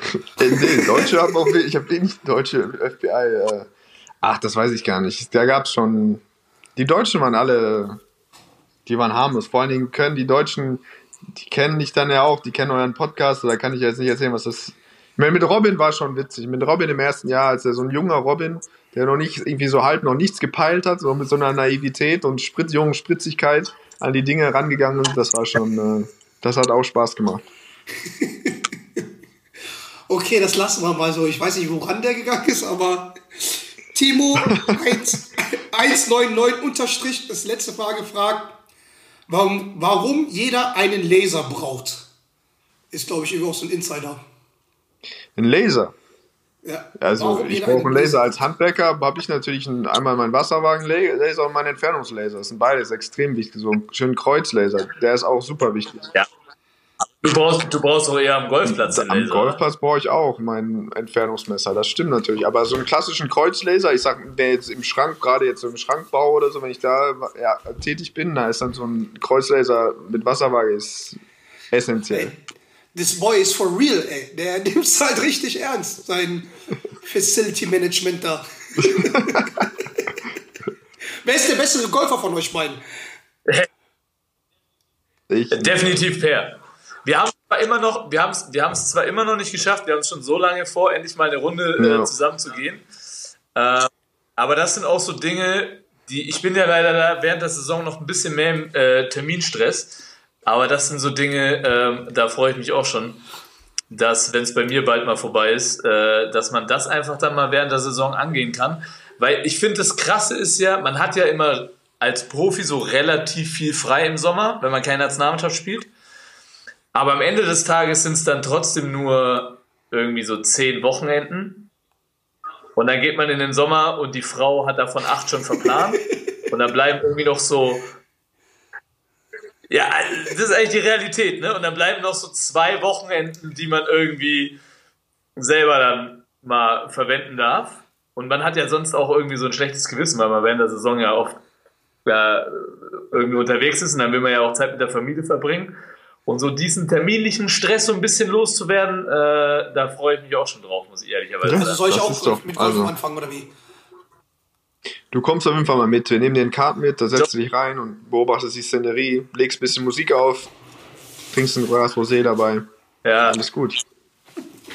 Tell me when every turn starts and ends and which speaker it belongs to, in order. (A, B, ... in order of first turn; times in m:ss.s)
0:00.4-0:03.7 A
0:00.6-0:01.1 B
0:04.2-0:06.2 A
0:06.8-0:08.0 A
0:08.9-0:27.4 A
0:28.0-0:28.6 B
0:30.1-0:38.5 B
0:39.3-0:42.1 B
0:42.9-0:44.2 B
0:45.4-0:45.9 A
0:46.6-0:48.3 B
0:47.0-0:56.1 A
0:57.2-0:59.6 C
0:58.6-1:11.2 A
1:11.7-1:12.4 A
1:12.9-1:16.5 B
1:17.0-1:19.4 B
1:18.8-1:19.5 A
1:21.2-1:22.8 B
1:25.3-1:26.0 A
1:25.5-1:32.8 C
1:31.8-1:32.1 A
1:33.6-1:43.2 C
1:43.9-1:55.9 C
1:56.9-2:01.7 C
2:02.8-2:08.0 C
2:09.7-2:14.6 C
2:15.4-2:21.4 C
2:22.0-2:31.8 C
2:31.4-2:33.0 A
2:31.5-2:33.5 B
2:35.1-2:40.5 A
2:41.3-2:42.7 A
2:43.0-2:43.4 C
2:43.2-2:43.8 A